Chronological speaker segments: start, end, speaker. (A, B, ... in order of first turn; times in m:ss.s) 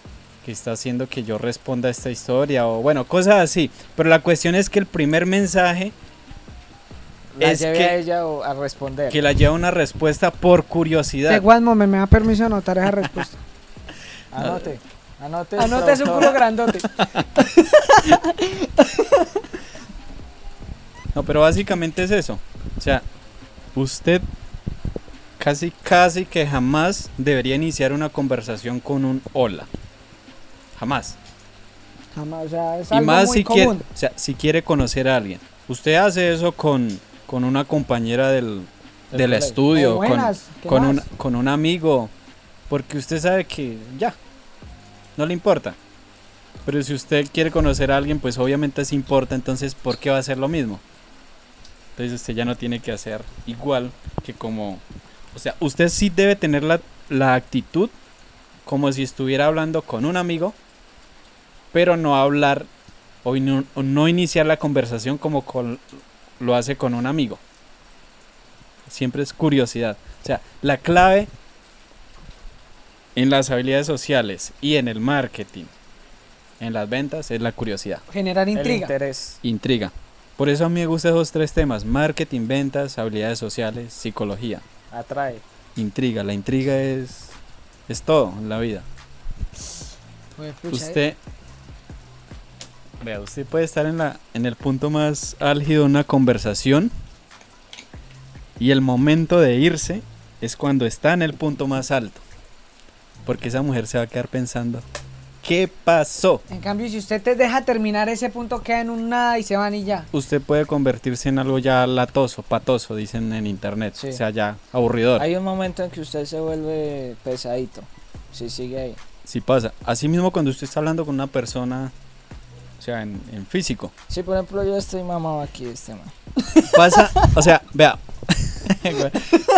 0:00.4-0:05.9 A
0:07.4-0:09.2 B
0:07.4-0:08.0 A
0:09.1-0:11.4 A
0:11.3-0:13.4 C
0:14.3-0:16.4 B
0:14.4-0:14.7 A
0:15.6-0:16.9 C
0:16.9-0:17.5 A
0:17.6-0:19.2 C
0:21.1-0:23.0 A
0:23.7-0:24.3 A
0:25.4-0:29.7 A
0:30.7-0:31.2 A
0:32.1-0:33.8 C
0:32.9-0:42.1 A
0:39.1-0:39.6 B
0:39.7-0:41.1 C
0:42.7-0:44.2 A
0:45.2-0:45.8 A
0:46.6-0:50.8 A
0:52.0-0:57.9 A
0:58.6-1:00.6 A
1:01.7-1:02.7 A
1:03.2-1:07.4 A
1:08.8-1:11.3 A
1:13.1-1:15.7 A
1:16.6-1:18.0 A
1:18.1-1:18.9 C
1:18.5-1:19.4 B
1:19.4-1:24.6 A
1:24.9-1:25.4 B
1:25.8-1:28.8 A
1:30.4-1:31.0 C
1:30.7-1:31.2 A
1:33.0-1:36.9 A
1:38.6-1:42.2 A
1:43.2-1:44.8 A
1:45.4-1:46.4 A
1:46.5-1:50.1 C
1:50.1-1:55.2 A
1:54.0-1:54.2 B
1:55.2-1:59.0 B
1:59.2-2:01.9 A
2:02.8-2:03.9 A
2:04.1-2:06.1 B
2:06.7-2:09.4 A